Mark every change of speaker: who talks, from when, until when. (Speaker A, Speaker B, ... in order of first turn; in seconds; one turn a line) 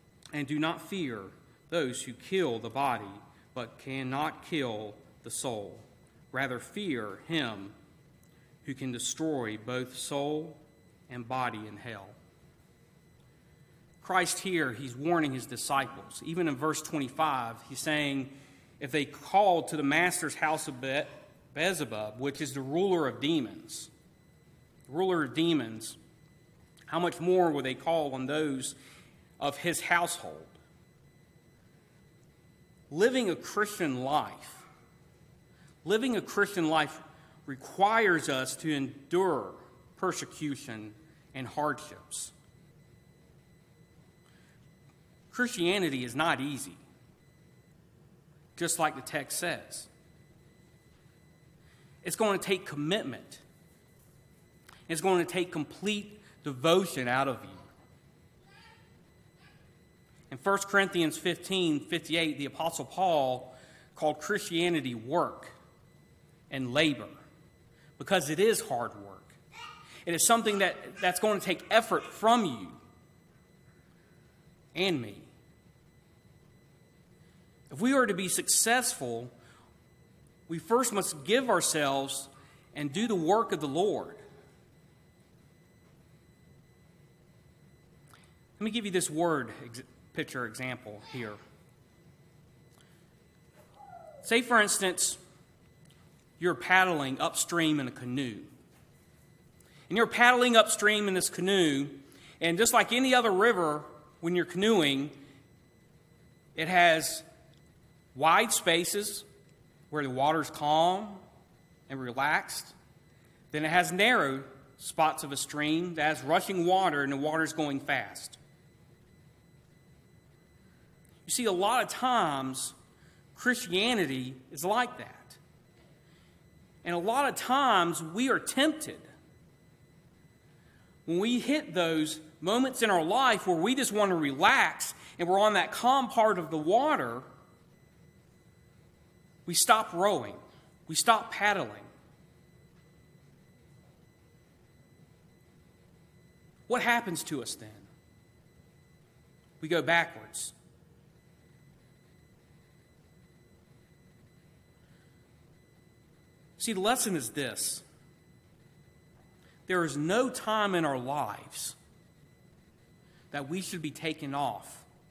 Speaker A: 0.3-7.8
Speaker A: 8.6-12.2
Speaker A: 14.0-23.9
Speaker A: 24.9-26.0
Speaker A: 26.9-28.8
Speaker A: 29.4-30.6
Speaker A: 32.9-34.6
Speaker A: 35.8-42.3
Speaker A: 45.3-46.8
Speaker A: 48.6-49.9
Speaker A: 52.0-53.4
Speaker A: 54.9-57.7
Speaker A: 60.3-65.5
Speaker A: 66.5-67.1
Speaker A: 68.0-69.4
Speaker A: 70.0-72.8
Speaker A: 74.7-75.3
Speaker A: 77.7-79.3
Speaker A: 80.5-84.2
Speaker A: 88.6-91.4
Speaker A: 94.2-95.2
Speaker A: 96.4-98.5
Speaker A: 99.9-105.1
Speaker A: 106.5-107.2
Speaker A: 108.1-109.2
Speaker A: 109.9-111.2
Speaker A: 111.9-112.8
Speaker A: 113.5-118.4
Speaker A: 121.2-122.8
Speaker A: 123.3-125.4
Speaker A: 126.8-129.1
Speaker A: 131.1-137.3
Speaker A: 139.5-141.9
Speaker A: 146.7-147.9
Speaker A: 149.6-150.5
Speaker A: 156.6-157.8
Speaker A: 159.7-161.8
Speaker A: 163.3-164.9